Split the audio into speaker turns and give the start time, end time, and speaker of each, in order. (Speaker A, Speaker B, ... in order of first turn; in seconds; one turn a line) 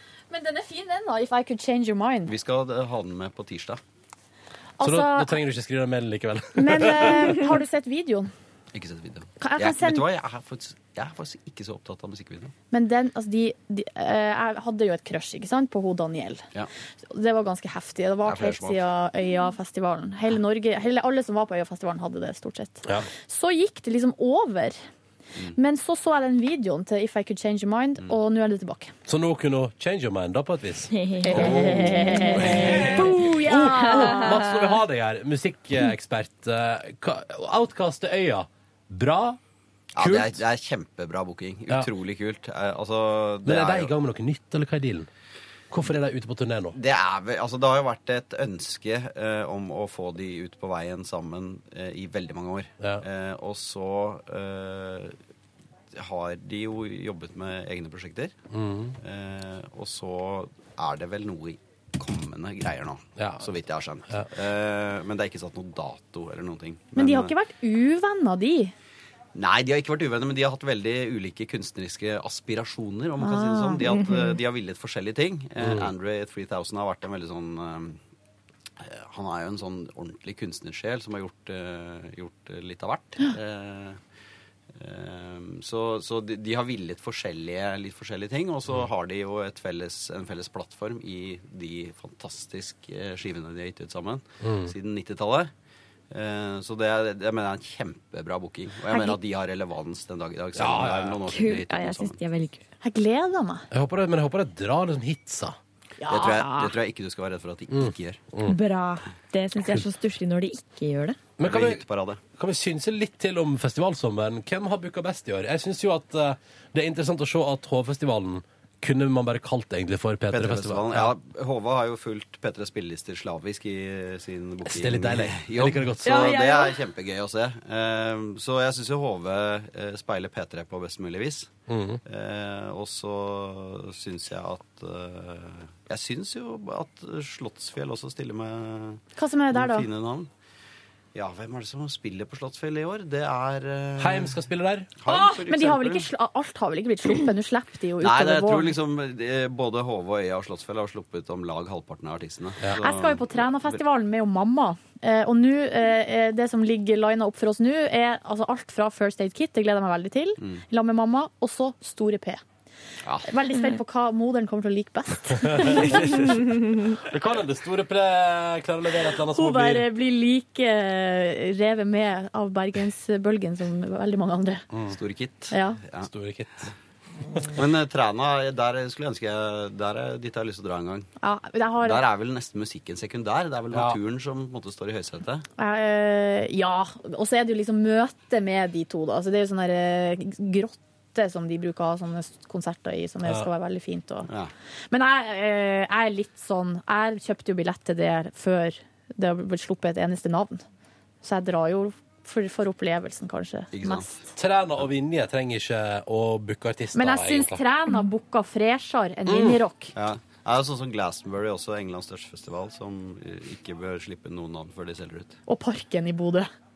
Speaker A: 0.3-2.3
Speaker B: 2.3-3.8
Speaker A: 4.8-5.4
Speaker C: 4.8-7.4
Speaker A: 6.6-8.3
Speaker B: 8.7-12.5
Speaker A: 9.4-10.1
Speaker A: 12.7-16.4
Speaker A: 17.1-24.8
Speaker B: 18.2-18.8
Speaker A: 25.6-28.9
Speaker C: 29.1-39.4
Speaker D: 31.1-31.4
Speaker A: 31.2-34.4
Speaker B: 31.4-31.8
Speaker D: 32.1-32.8
Speaker B: 40.0-43.9
Speaker C: 40.0-40.4
Speaker C: 43.5-45.1
Speaker C: 45.7-46.8
Speaker B: 46.7-55.2
Speaker B: 55.9-58.3
Speaker C: 58.5-59.0
Speaker B: 59.0-67.3
Speaker C: 63.2-63.5
Speaker A: 67.0-68.7
Speaker B: 69.3-78.0
Speaker A: 73.2-74.1
Speaker D: 74.0-74.3
Speaker C: 75.6-75.9
Speaker B: 78.8-84.0
Speaker B: 84.8-95.5
Speaker C: 94.4-94.7
Speaker B: 96.1-102.2
Speaker A: 98.9-99.2
Speaker C: 100.6-101.2
Speaker D: 101.3-102.6
Speaker A: 102.8-103.7
Speaker C: 103.7-105.6
Speaker A: 106.0-106.7
Speaker B: 106.1-108.2
Speaker C: 107.7-108.6
Speaker D: 108.5-111.2
Speaker C: 111.4-111.8
Speaker B: 111.4-112.2
Speaker C: 112.4-121.1
Speaker B: 120.3-131.5
Speaker C: 124.7-126.2
Speaker D: 126.0-126.8
Speaker C: 131.7-132.0
Speaker B: 132.1-140.3
Speaker A: 139.2-139.9
Speaker B: 141.2-144.3
Speaker C: 144.0-144.9
Speaker B: 145.0-146.1
Speaker A: 145.1-148.8
Speaker B: 148.0-153.8
Speaker A: 152.8-162.4
Speaker A: 163.3-165.9
Speaker C: 165.4-166.3
Speaker C: 167.0-169.9
Speaker A: 169.3-174.7
Speaker B: 174.9-176.1
Speaker A: 175.5-175.8
Speaker C: 176.0-176.7
Speaker B: 177.5-181.1
Speaker A: 181.2-182.0
Speaker B: 181.8-185.4
Speaker C: 183.7-184.0
Speaker A: 185.6-194.3
Speaker B: 194.3-194.5
Speaker A: 194.9-200.6
Speaker A: 201.2-204.2
Speaker B: 203.7-204.3
Speaker C: 204.3-207.6
Speaker A: 206.9-209.9
Speaker C: 209.3-209.6
Speaker B: 209.9-215.4
Speaker A: 215.5-216.5